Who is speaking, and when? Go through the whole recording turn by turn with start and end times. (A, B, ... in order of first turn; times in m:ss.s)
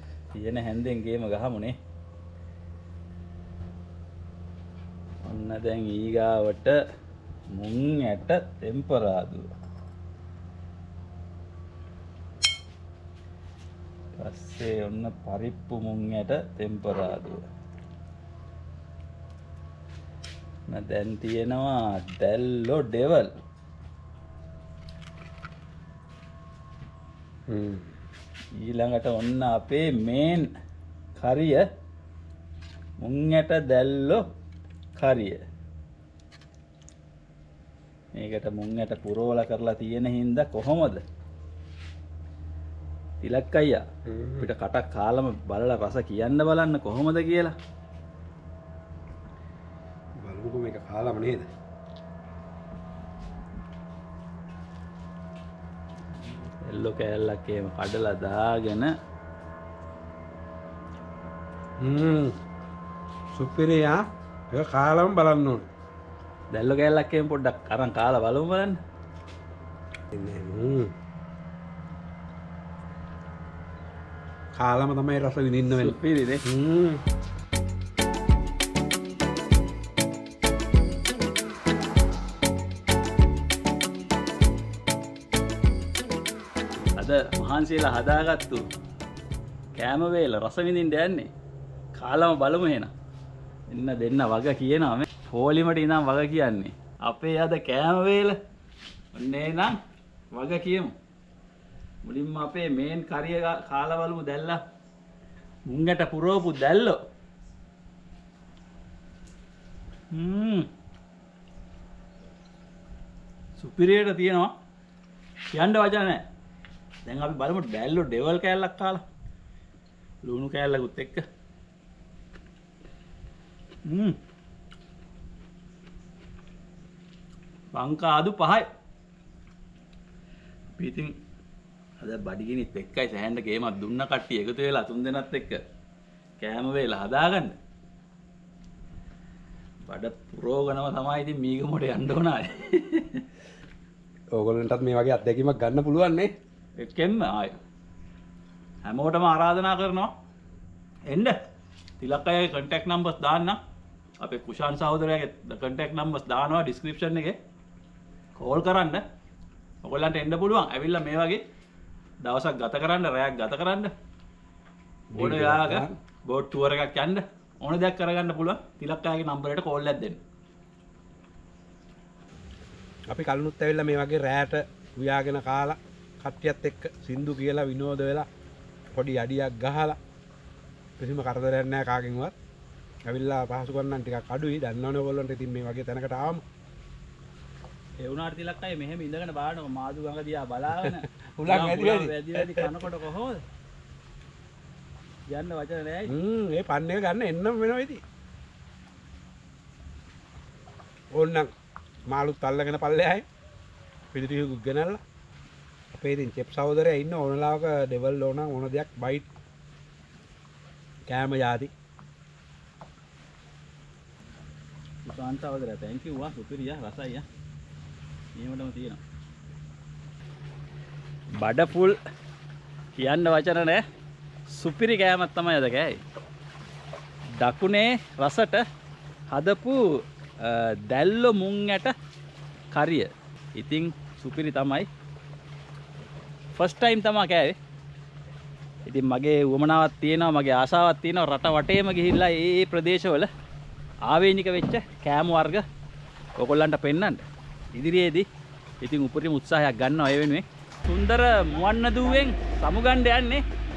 0:00.4-0:01.8 A
0:05.2-0:06.8 A
0:07.5-0:09.5 A
0:14.1-0:17.4 A
0:20.7-0:23.3 A
0:27.5-0:27.9 B
0:28.6-0:30.5 A
0:31.2-0:31.6 A
0:33.0-0:34.2 A
0:35.0-0:35.4 A
0:38.2-0:41.0 A
0:43.2-0:43.8 A
0:44.0-0:44.5 B
0:44.4-0:47.5 A
0:50.2-0:51.5 B
0:56.6-0:58.9 A
1:01.8-1:02.4 B
1:03.3-1:04.0 B
1:04.5-1:05.7 B
1:06.5-1:08.8 A
1:10.1-1:10.9 B
1:14.5-1:17.0 B
1:15.7-1:16.4 A
1:27.0-1:28.6 A
1:29.8-1:31.3 A
1:32.0-1:32.9 A
1:33.7-1:38.4 A
1:39.1-1:39.8 A
1:40.3-1:40.9 A
1:42.0-1:44.6 A
1:45.7-1:47.0 A
1:50.1-1:50.7 A
1:53.6-1:54.5 A
1:55.5-1:56.2 A
1:57.0-1:59.0 A
2:00.2-2:01.2 A
2:03.8-2:04.2 A
2:07.7-2:08.7 A
2:10.8-2:11.2 A
2:12.0-2:15.6 A
2:16.4-2:17.6 A
2:19.8-2:23.3 A
2:24.3-2:26.3 B
2:26.8-2:27.6 A
2:28.8-2:30.1 A
2:31.1-2:31.4 A
2:32.0-2:33.6 A
2:34.2-2:37.4 A
2:38.4-2:39.0 A
2:39.8-2:41.4 A
2:42.2-2:43.9 A
2:45.1-2:45.9 B
2:45.1-2:50.2 A
2:53.1-2:58.3 B
2:58.9-3:00.0 B
3:01.0-3:02.3 B
3:03.0-3:06.4 B
3:08.0-3:13.4 A
3:10.7-3:12.8 B
3:15.3-3:16.1 A
3:16.1-3:18.0 B
3:21.1-3:21.5 B
3:22.0-3:23.2 B
3:24.1-3:25.0 B
3:25.9-3:29.3 B
3:31.1-3:31.7 B
3:35.0-3:37.2 A
3:38.4-3:39.0 A
3:41.4-3:42.0 A
3:43.0-3:43.8 A
3:44.5-3:46.0 A
3:47.4-3:48.6 A
3:49.3-3:49.8 A
3:50.4-3:51.9 A
3:52.7-3:54.9 A
3:56.6-3:57.6 A
3:58.9-4:03.3 A
4:04.1-4:05.6 A
4:06.4-4:08.3 A
4:08.8-4:13.4 A